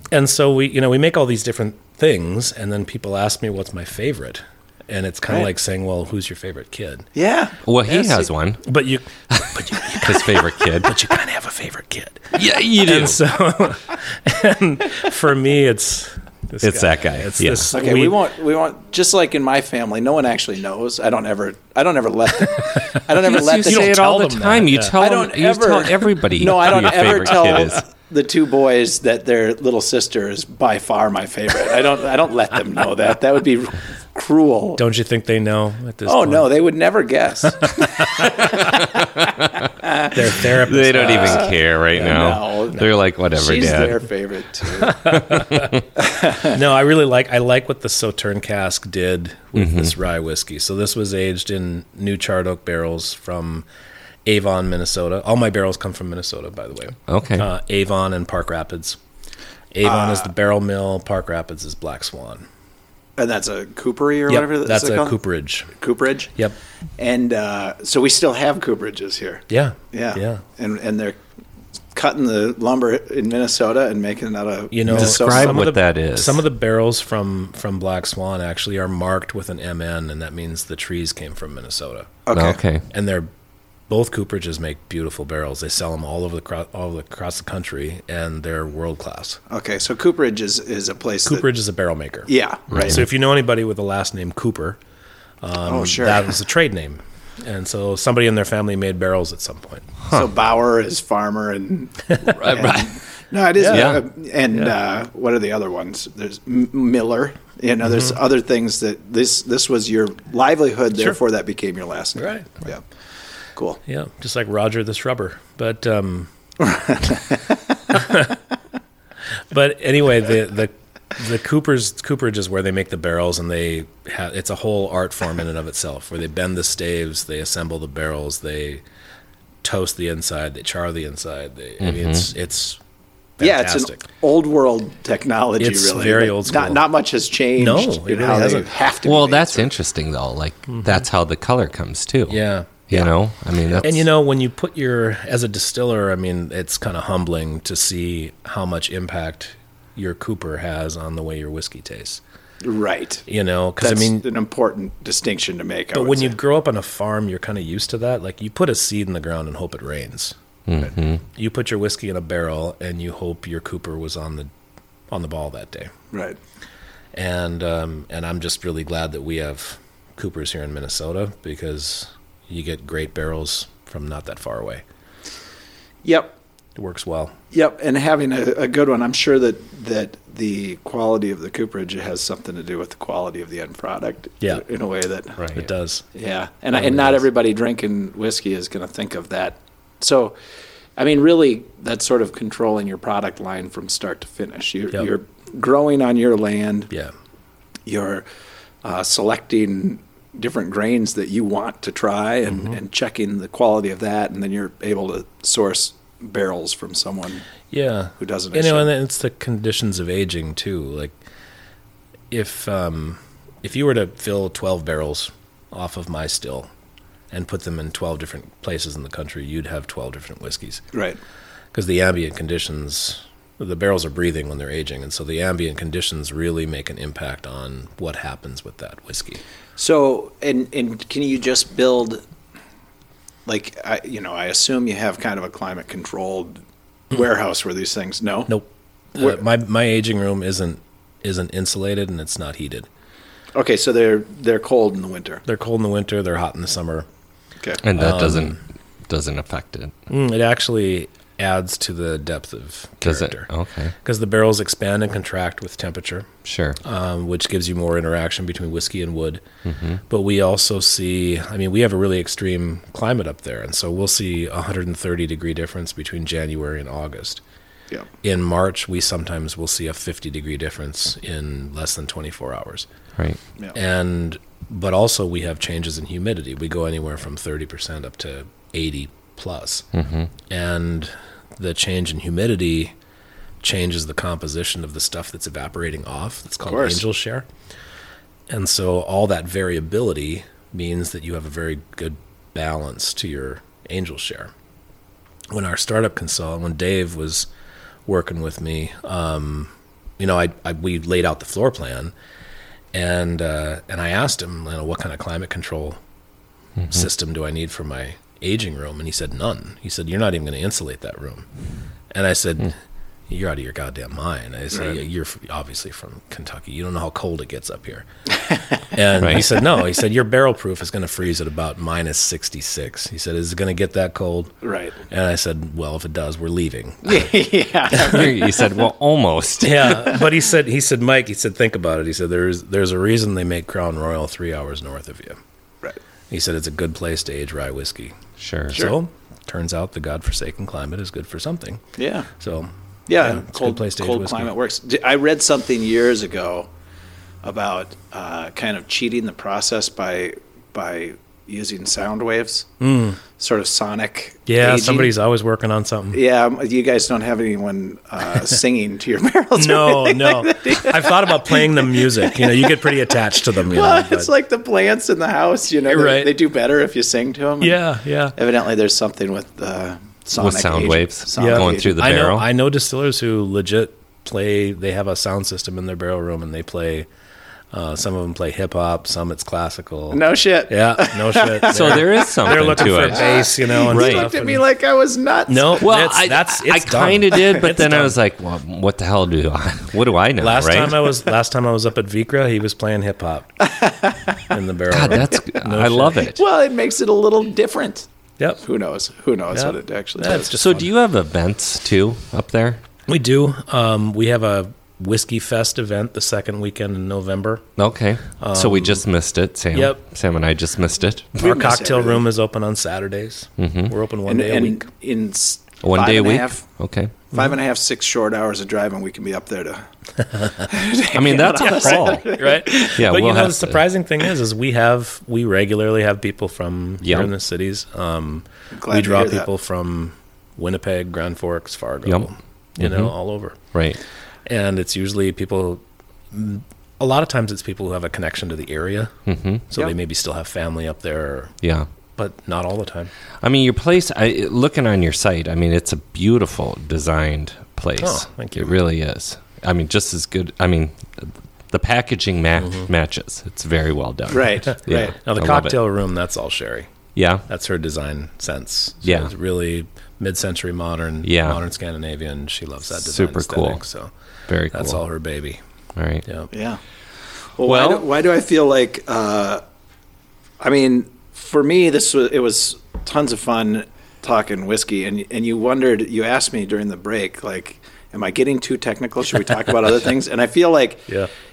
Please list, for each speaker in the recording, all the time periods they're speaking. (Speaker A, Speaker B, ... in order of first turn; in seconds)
Speaker A: 0.1-7.1, 8.6-18.2, 23.2-25.0, 34.8-36.5, 40.1-41.5, 44.8-45.7, 46.4-53.7, 54.2-59.0, 59.7-62.5, 64.3-65.7, 69.5-70.4, 74.7-82.2, 82.9-83.3, 83.9-89.4, 91.3-94.8, 95.4-99.9, 103.6-104.0, 112.2-112.7, 113.8-116.3, 117.9-118.4, 119.5-128.8, 129.6-132.8, 133.4-134.0, 135.6-136.8, 137.6-138.7, 142.3-142.9, 143.8-152.2, 153.3-154.3, 155.9-160.4, 161.3-164.5, 165.1-165.9, 167.1-174.8, 176.8-177.4, 185.5-186.1, 186.7-187.2, 207.7-211.2, 212.3-216.7, 217.3-220.9, 221.7-229.4, 238.5-242.9, 245.5-247.1, 247.9-248.6, 250.1-253.5, 254.0-256.3, 256.8-259.4, 260.1-267.4, 268.2-272.9, 273.7-279.9, 280.5-282.9, 283.6-287.5, 288.5-294.5, 295.5-297.5, 298.1-302.1, 302.9-306.0, 306.9-311.5, 312.1-312.7, 313.3-318.1, 318.9-324.6, 325.1-327.3, 329.6-335.4, 336.3-338.2, 338.7-341.8, 342.4-344.5, 352.8-353.2, 354.5-356.2, 359.6-364.3, 365.9-366.3, 367.6-368.4, 371.4-377.1, 377.7-384.6, 385.5-388.2, 390.4-393.5, 394.5-396.3, 398.4-398.6, 399.5-400.9, 403.1-407.7, 408.4-409.0, 409.7-410.0, 411.4-414.9, 422.4-433.6, 434.5-439.2, 439.7-441.5, 442.2-443.1, 448.0-448.8, 452.6-452.9, 455.2-456.9, 457.5-464.1, 464.7-465.6, 466.2-466.5
Speaker B: 7.2-8.1, 17.7-24.0, 25.0-34.8, 36.1-40.4, 41.0-45.2, 46.0-46.6, 59.8-60.3, 63.2-65.2, 65.7-66.3, 67.0-71.2, 71.9-75.6, 82.3-82.6, 89.5-91.5, 92.3-93.0, 95.6-96.4, 100.1-112.8, 116.6-117.6, 133.4-139.7, 152.6-153.2, 153.8-156.4, 166.1-166.4, 176.0-176.4, 177.5-185.4, 186.1-190.3, 191.0-196.9, 197.9-198.3, 198.8-207.5, 208.2-208.9, 220.9-221.2, 229.8-232.2, 233.5-236.6, 237.1-238.6, 243.5-245.4, 286.6-287.0, 314.7-315.0, 324.6-325.0, 327.0-328.8, 329.8-330.2, 342.0-342.3, 343.1-346.7, 347.4-352.7, 353.4-355.1, 356.1-367.8, 368.4-372.0, 380.1-385.9, 393.6-394.4, 396.3-398.1, 398.6-400.5, 411.4-412.2, 414.3-416.6, 417.3-419.9, 420.5-423.0, 428.7-429.5, 454.3-455.1, 466.5-466.8, 467.6-469.6, 470.6-481.1
Speaker C: 7.7-8.7, 9.3-11.0, 12.3-13.2, 16.6-17.7, 23.2-27.8, 38.4-39.5, 40.4-44.0, 45.1-45.8, 49.6-49.9, 57.1-57.5, 74.9-76.4, 82.3-82.8, 92.7-93.0, 102.3-103.0, 103.7-104.0, 131.8-132.3, 139.0-144.0, 160.7-161.2, 247.8-249.9, 253.0-253.9, 256.4-256.8, 259.6-260.0, 279.9-280.3, 319.2-319.5, 327.9-330.0, 338.4-338.8, 370.4-372.5, 381.7-384.3, 385.8-391.1, 394.9-396.4, 400.5-402.8, 407.8-411.4, 413.6-413.9, 415.8-417.1, 421.1-422.3, 422.9-423.8, 427.0-427.3, 432.1-433.1, 433.7-434.0, 439.3-439.6, 441.6-441.9, 443.4-455.8, 457.1-457.5, 459.0-459.3, 461.2-461.6, 463.0-463.8, 464.5-465.0, 466.0-466.2, 467.6-468.1